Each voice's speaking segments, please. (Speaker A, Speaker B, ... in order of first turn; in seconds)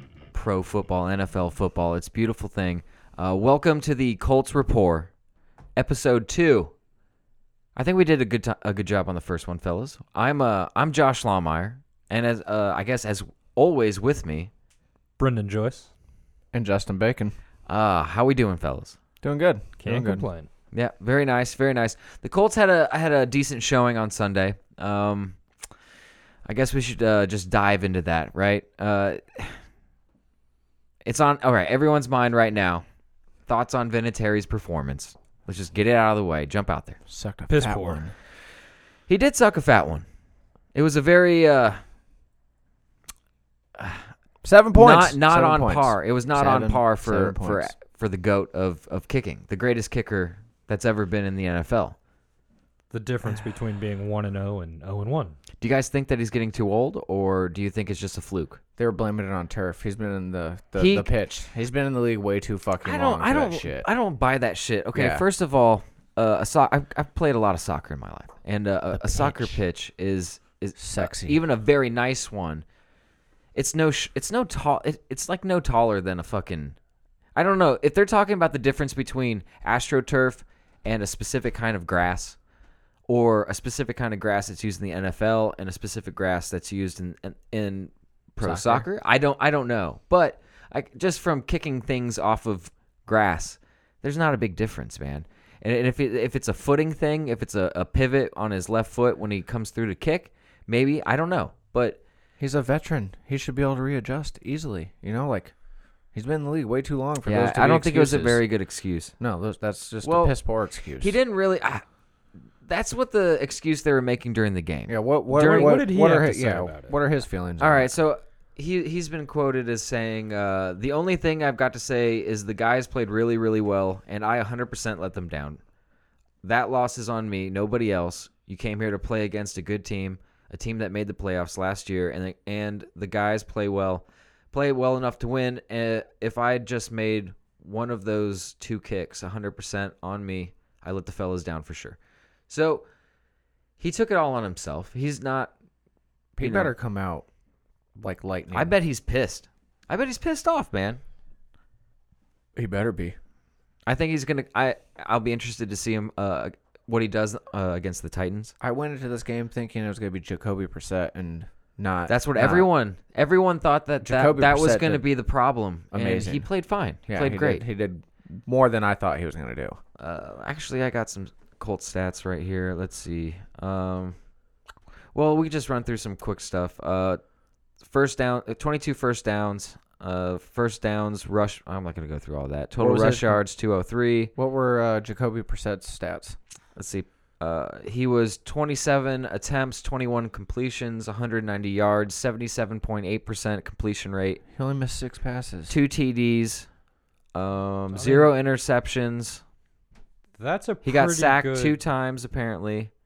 Speaker A: 0.3-5.1, 5.8-6.7, 7.7-14.5, 17.6-19.0, 20.7-25.4, 26.4-29.6, 31.0-32.8, 33.5-37.0, 39.1-40.0, 40.7-41.8, 43.8-44.1, 44.7-52.0, 55.6-58.6, 60.8-61.1, 62.8-72.7, 73.5-76.8, 77.3-82.4, 83.1-102.0, 107.2-109.1, 110.0-110.4, 111.0-111.8, 112.6-115.7, 117.6-125.6, 126.4-142.0, 142.5-142.8, 143.8-145.5, 146.4-146.7, 148.5-151.0, 153.8-158.5, 162.1-167.6, 170.0-174.2, 175.1-177.2, 177.8-184.3, 186.8-194.4, 195.7-196.7, 197.3-199.4, 200.8-202.9
Speaker B: 15.2-15.9, 19.8-20.5, 37.5-38.0, 52.9-55.4, 115.3-117.0, 197.9-198.3, 200.4-201.8
Speaker C: 16.5-17.4, 19.2-20.2, 37.1-38.1, 44.4-47.7, 58.8-63.9, 64.9-65.2, 68.9-69.6, 70.8-71.4, 88.4-88.9, 102.4-105.5, 106.1-108.4, 109.2-111.2, 114.9-118.0, 146.3-147.2, 147.9-148.8, 152.6-153.2, 158.6-162.7, 164.0-165.1, 165.9-166.5, 167.1-169.8, 182.8-183.4, 184.3-186.4, 194.5-195.7